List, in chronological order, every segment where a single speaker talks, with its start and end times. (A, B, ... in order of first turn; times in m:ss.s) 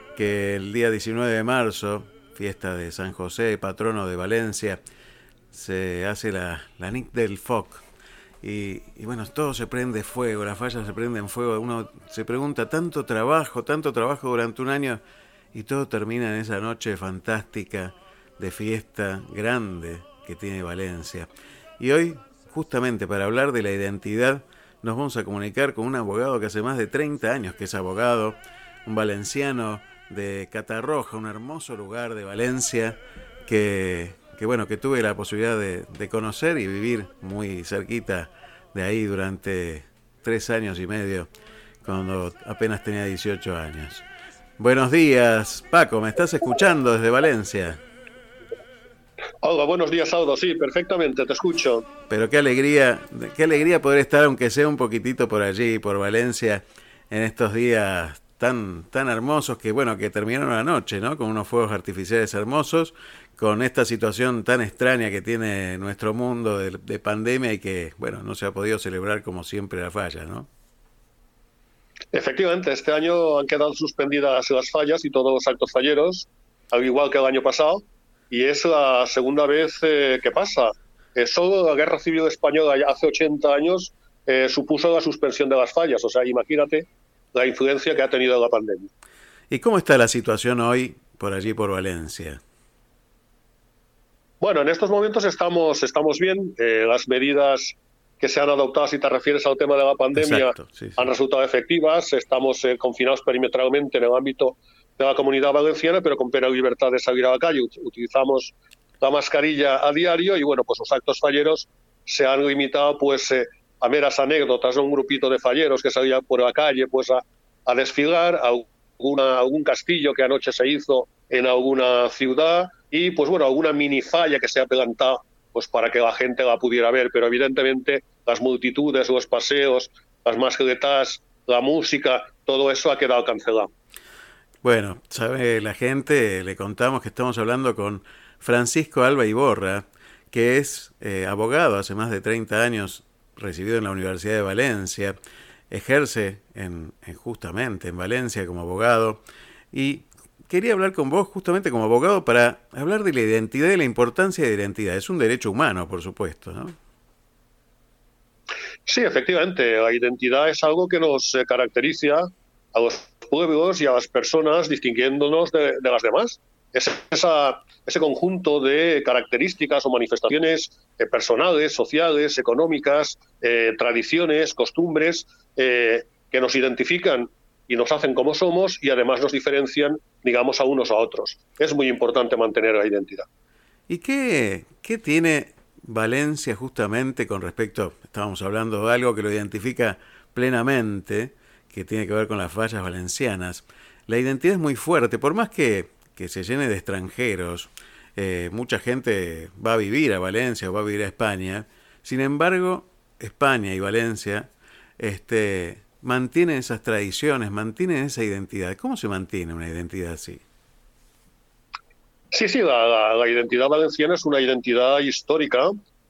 0:00.1-0:04.8 A
0:05.5-0:07.8 A
0:08.4-0:15.0 A
0:15.5-0:41.3 A
0:41.8-0:44.0 A
0:44.6-0:47.8 A
0:49.4-0:51.8 B
0:52.1-1:10.5 A
1:12.1-1:28.9 B
1:29.5-1:32.4 A
1:34.4-2:13.7 B
1:40.1-1:41.1 A
2:14.6-2:25.2 A
2:25.7-2:36.8 A
2:38.9-3:03.2 B
3:03.9-3:30.4 A
3:32.3-3:35.7 B